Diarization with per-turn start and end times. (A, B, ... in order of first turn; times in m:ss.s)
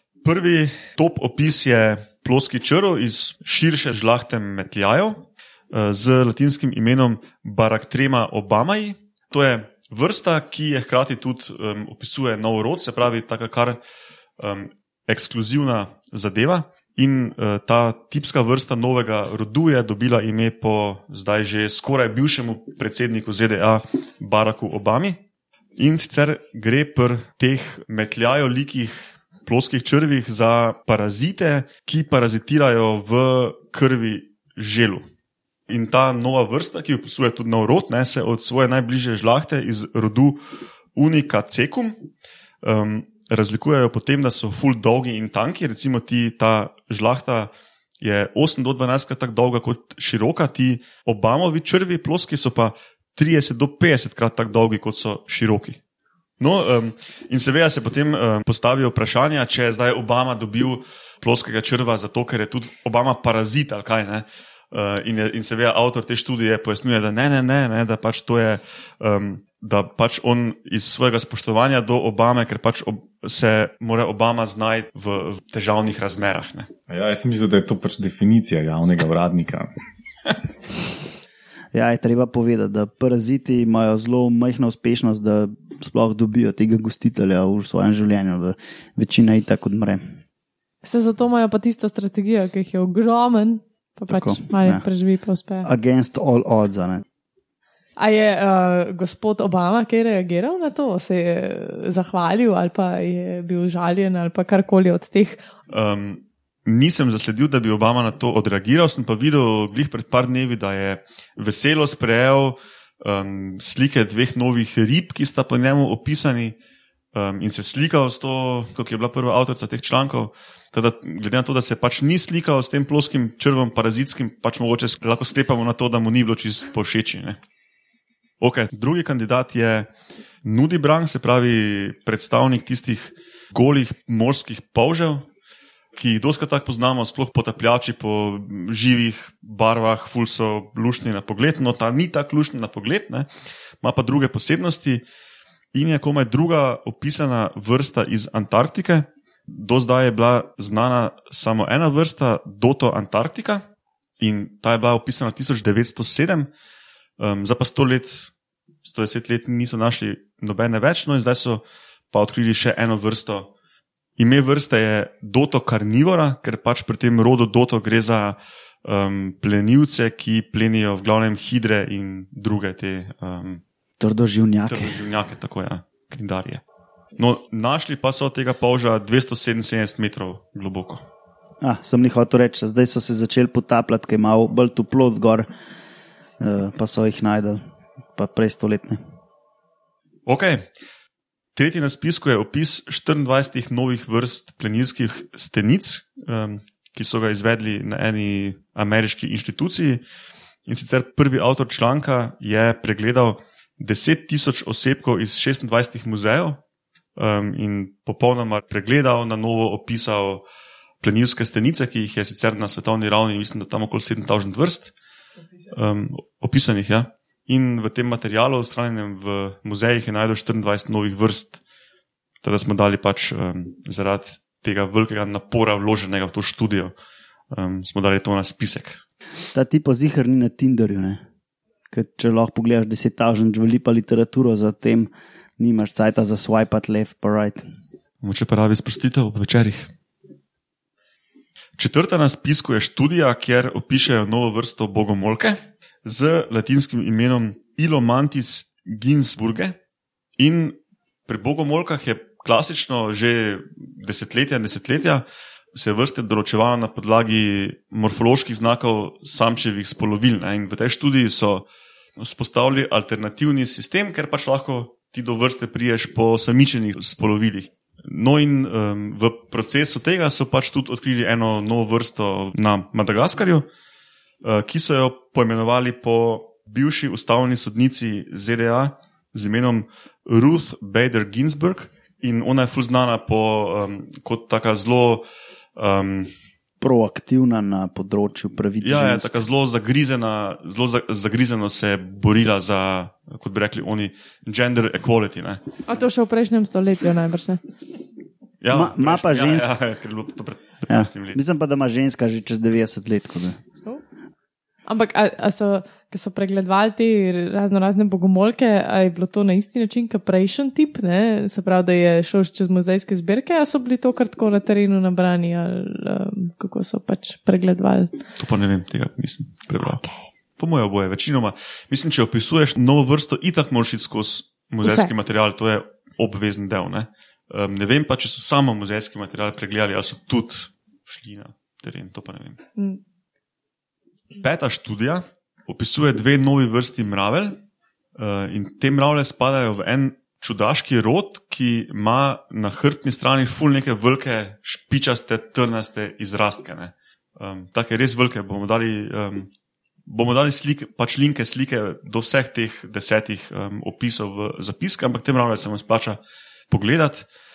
0:00.2-0:13.8 A
0:14.4-0:25.2 A
0:25.8-0:35.0 A
0:35.7-0:40.4 A
0:40.9-0:42.0 A
0:42.6-0:55.8 A
0:56.4-1:16.7 A
1:16.9-1:19.7 B
1:21.7-1:30.0 C
1:30.8-1:35.7 D
1:34.1-1:34.8 C
1:35.6-1:37.0 C
1:38.0-1:45.4 D
1:45.7-1:56.5 A
1:57.1-2:07.4 A
2:08.4-2:09.9 A
2:10.4-2:15.2 A
2:15.9-2:23.3 A
2:23.8-2:25.0 A
2:25.7-2:33.6 A
2:34.2-2:36.5 A
2:37.2-2:38.3 A
2:38.8-2:43.5 A
2:44.2-2:53.6 A
2:54.0-2:55.0 C
2:54.7-2:56.6 A
2:57.2-3:01.0 A
3:01.6-3:05.5 C
3:06.4-3:07.6 C
3:08.2-3:09.0 C
3:10.2-3:10.7 A
3:11.5-3:20.0 A
3:20.7-3:26.6 A
3:27.2-3:30.4 A
3:31.0-3:34.9 A
3:35.7-3:41.6 A
3:42.4-3:46.9 A
3:47.5-3:49.0 A
3:49.5-3:51.2 C
3:51.9-3:57.6 C
3:58.2-3:59.9 A
4:01.8-4:09.8 A
4:10.4-4:21.6 A
4:22.2-4:33.6 A
4:34.4-4:45.2 A
4:45.8-4:46.3 A
4:46.8-4:49.4 C
4:48.8-4:55.6 A
4:55.9-4:57.6 D
4:58.6-5:01.4 A
4:58.7-4:59.7 C
5:00.9-5:03.6 C
5:04.9-5:18.1 D
5:18.4-5:20.0 A
5:19.8-5:20.1 D
5:20.6-5:32.6 A
5:24.8-5:25.1 D
5:34.4-5:37.6 A
5:38.2-5:49.5 A
5:50.0-5:56.2 A
5:56.7-5:57.3 A